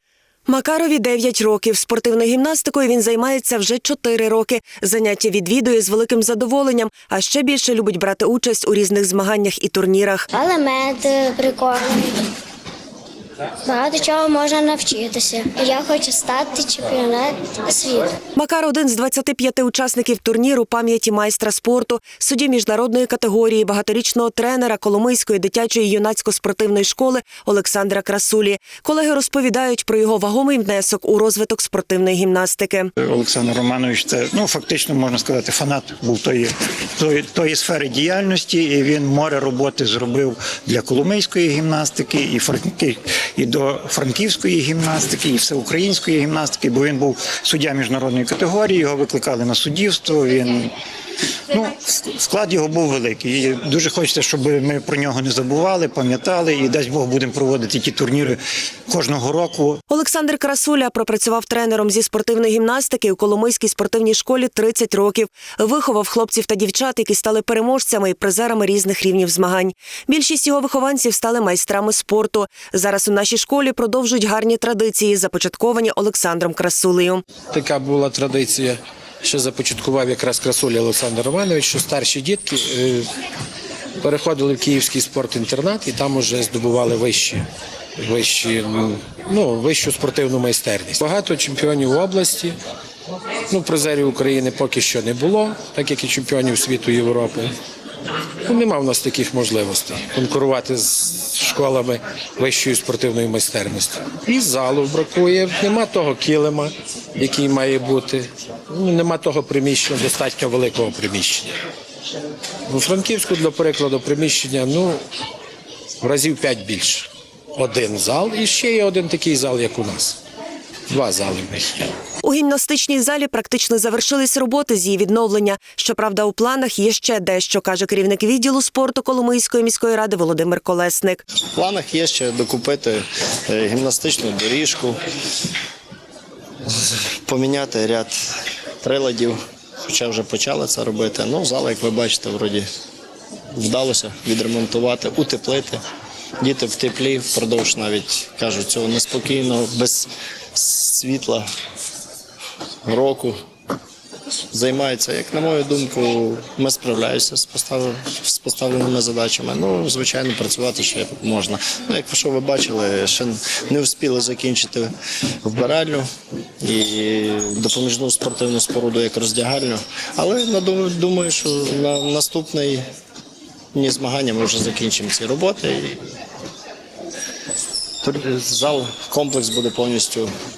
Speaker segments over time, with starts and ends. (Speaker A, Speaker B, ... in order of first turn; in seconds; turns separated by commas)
Speaker A: 0.5-10.3, Speaker B: 10.3-12.2, Speaker B: 13.7-18.1, Speaker A: 18.4-32.9, Speaker C: 33.0-50.7, Speaker C: 51.5-59.8, Speaker A: 59.9-77.2, Speaker D: 77.5-83.1, Speaker D: 84.0-87.5, Speaker D: 88.0-92.6, Speaker D: 93.5-97.5, Speaker D: 98.5-111.5, Speaker D: 112.7-115.0, Speaker D: 116.0-120.2, Speaker D: 120.9-121.8, Speaker A: 122.2-131.2, Speaker E: 131.6-135.0, Speaker E: 136.7-138.2, Speaker E: 138.8-142.7, Speaker E: 143.6-145.8, Speaker E: 146.4-151.5, Speaker E: 152.9-153.4, Speaker E: 154.5-164.9, Speaker E: 165.4-166.1, Speaker E: 166.6-172.8, Speaker E: 173.7-176.0, Speaker E: 178.0-180.3